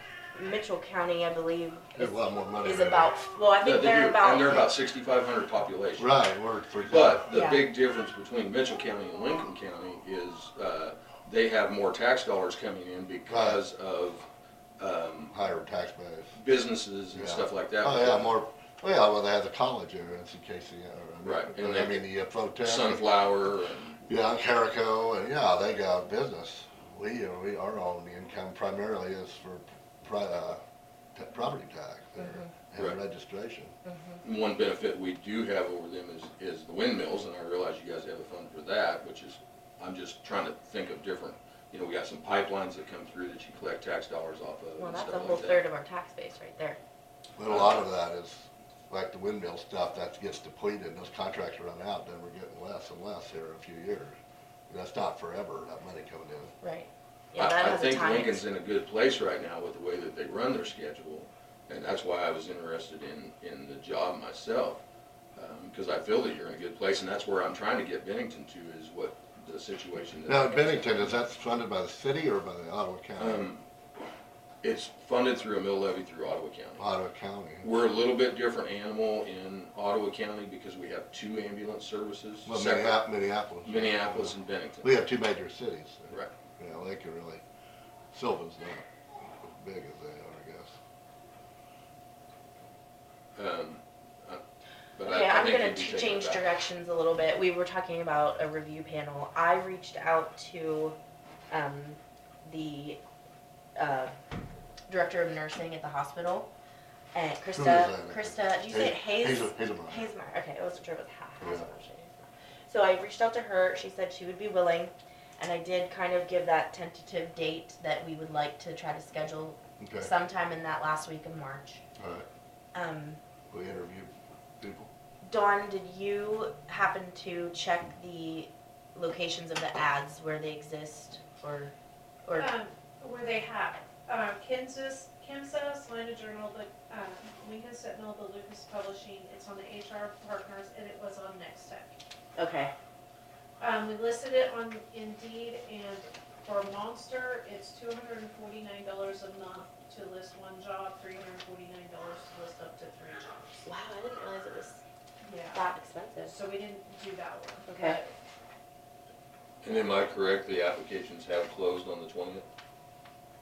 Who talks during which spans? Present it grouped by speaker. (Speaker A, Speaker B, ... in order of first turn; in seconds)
Speaker A: 0.3-4.7, 7.3-7.7, 32.2-32.5, 33.9-34.2, 44.8-46.8, 56.6-58.4, 95.0-101.0, 101.5-103.0, 103.8-104.2, 104.9-106.5, 107.1-121.8, 122.7-123.2, 125.2-131.7, 132.3-132.5, 142.4-142.7, 153.7-154.8, 155.5-156.3, 157.7-158.0
Speaker B: 2.0-3.1, 6.0-7.3, 13.3-13.6, 15.3-16.3, 17.1-23.1, 24.1-30.6, 31.1-33.8, 47.4-54.2, 54.7-56.5, 70.3-73.5, 76.8-77.7, 82.5-87.4, 88.1-88.9, 89.4-90.7, 107.6-110.0, 111.4-111.7, 119.8-120.1, 122.0-122.3, 123.5-124.9
Speaker C: 3.6-6.2, 6.8-14.3, 14.8-15.3, 16.4-18.3, 21.2-22.1, 22.6-24.0, 34.2-45.6, 47.5-47.9, 57.4-64.8, 65.4-71.2, 73.2-73.6, 74.6-76.8, 77.6-83.0, 83.6-85.0, 93.3-94.4, 95.0-96.5, 159.6-162.4
Speaker D: 132.4-141.9, 143.6-153.6, 155.2-155.6, 156.3-158.1